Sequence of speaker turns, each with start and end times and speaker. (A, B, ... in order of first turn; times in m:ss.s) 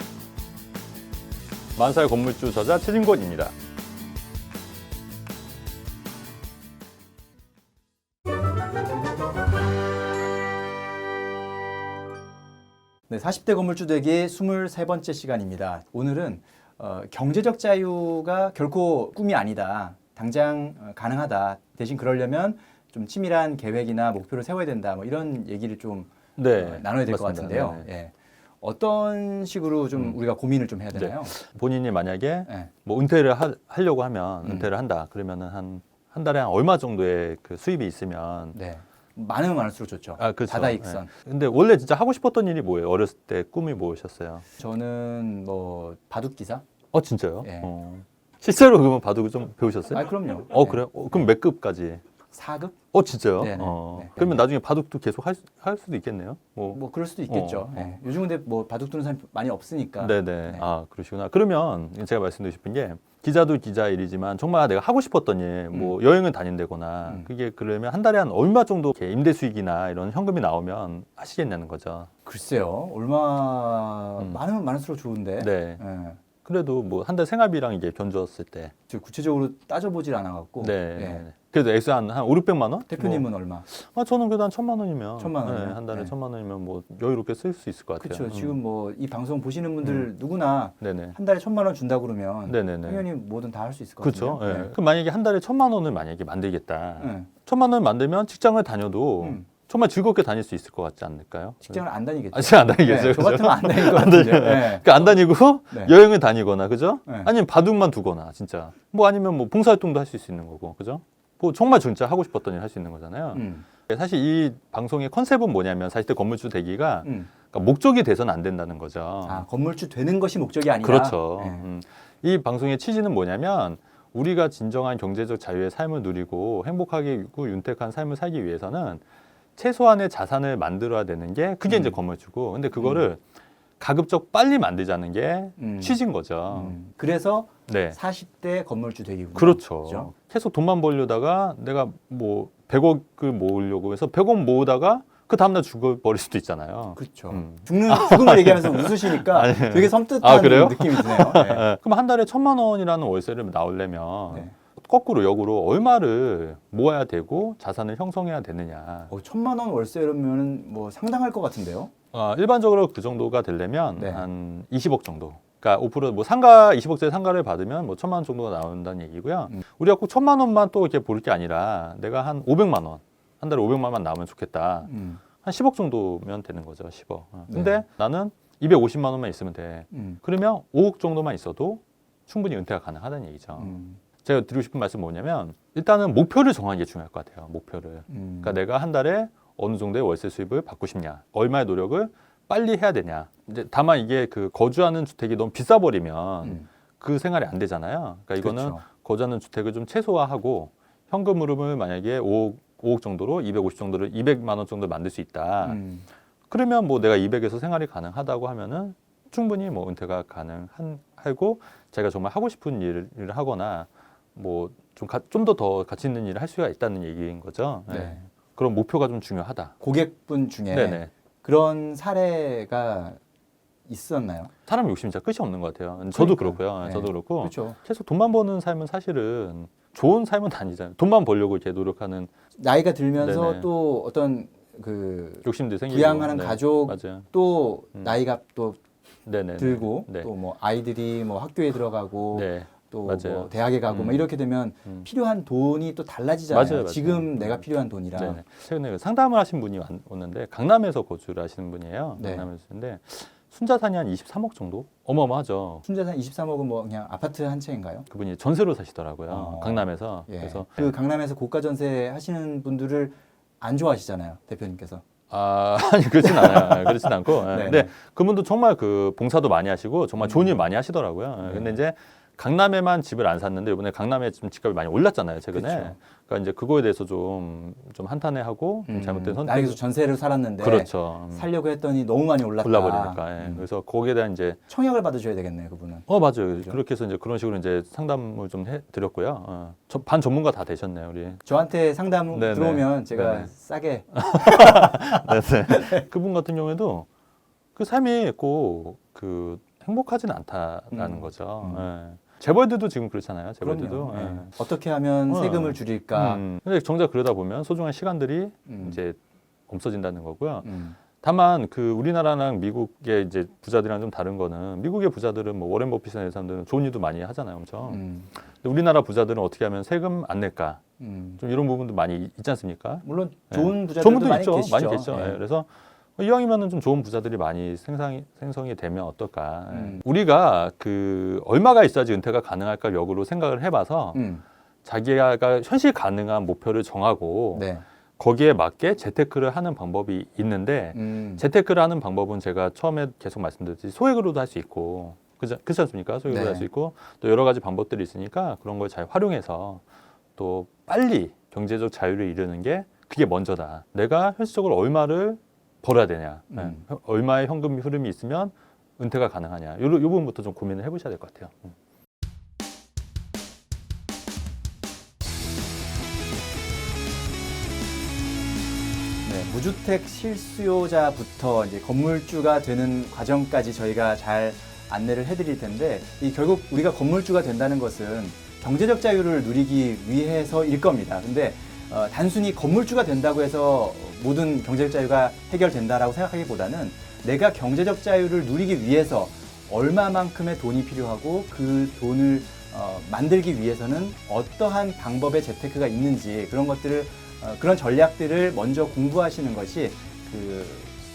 0:01.8-0:03.5 A
0:13.1-0:31.3 B
0:26.4-0:27.9 A
0:30.9-0:38.6 A
0:38.5-0:41.1 B
0:40.2-0:44.4 A
0:44.6-0:46.6 B
0:46.9-0:52.0 A
0:47.4-0:47.7 B
0:49.9-0:51.3 B
0:52.3-0:52.7 B
0:52.9-0:58.0 A
0:53.4-0:54.4 B
0:56.7-1:00.6 B
1:00.0-1:12.1 A
1:12.2-1:16.2 B
1:15.4-1:15.8 A
1:16.4-1:18.7 A
1:18.9-1:21.2 B
1:20.6-1:28.6 A
1:22.9-1:23.6 B
1:25.2-1:26.1 B
1:28.0-1:34.7 B
1:29.8-1:30.1 A
1:30.8-1:31.2 A
1:32.4-1:33.0 A
1:34.0-1:41.8 A
1:37.0-1:37.3 B
1:39.2-1:39.4 B
1:41.6-1:45.1 B
1:42.3-1:59.4 A
1:53.3-1:53.6 B
1:57.0-1:57.3 B
1:59.2-2:01.6 B
2:00.8-2:09.0 A
2:09.6-2:13.2 A
2:11.7-2:12.0 B
2:12.8-2:13.0 B
2:13.8-2:16.8 A
2:15.6-2:16.0 B
2:16.5-2:20.1 B
2:17.7-2:18.0 A
2:19.3-2:39.1 A
2:27.0-2:31.7 B
2:39.1-2:41.9 B
2:42.1-2:54.9 A
2:44.0-2:44.2 B
2:54.8-2:55.2 B
2:55.4-3:25.8 A
2:57.5-2:57.8 B
2:59.9-3:00.2 B
3:03.6-3:04.0 B
3:08.1-3:08.6 B
3:18.4-3:18.8 B
3:25.6-3:26.0 B
3:26.5-3:39.7 A
3:37.9-3:38.2 B
3:39.8-3:43.2 B
3:40.7-3:41.1 A
3:43.9-3:44.5 B
3:44.7-3:52.3 A
3:46.1-3:47.8 B
3:52.6-3:58.8 B
3:53.2-3:53.6 A
3:55.4-3:57.3 A
3:59.2-4:00.3 A
3:59.6-4:08.4 B
4:02.3-4:04.3 A
4:06.5-4:15.8 A
4:12.2-4:12.5 B
4:15.8-4:18.1 B
4:18.1-4:20.9 A
4:19.3-4:25.0 B
4:25.3-4:39.8 A
4:26.2-4:27.9 B
4:30.2-4:30.5 B
4:31.4-4:31.8 B
4:35.5-4:36.0 B
4:38.9-4:43.6 B
4:40.6-4:41.5 A
4:42.6-4:44.6 A
4:44.7-4:46.8 B
4:46.1-4:51.4 A
4:51.4-4:56.0 B
4:52.3-4:53.5 A
4:54.1-4:57.1 A
4:57.7-5:04.5 A
5:00.9-5:01.9 B
5:03.6-5:06.4 B
5:05.3-5:09.2 A
5:08.7-5:09.0 B
5:09.7-5:20.8 A
5:10.6-5:11.0 B
5:17.9-5:18.3 B
5:21.0-5:21.4 B
5:21.4-5:34.2 A
5:23.0-5:25.4 B
5:29.7-5:30.0 B
5:34.1-5:34.4 B
5:34.8-5:49.8 A
5:37.5-5:37.8 B
5:40.9-5:41.4 B
5:46.3-5:46.6 B
5:50.4-6:01.7 A
5:56.5-5:56.8 B
6:09.2-6:41.0 B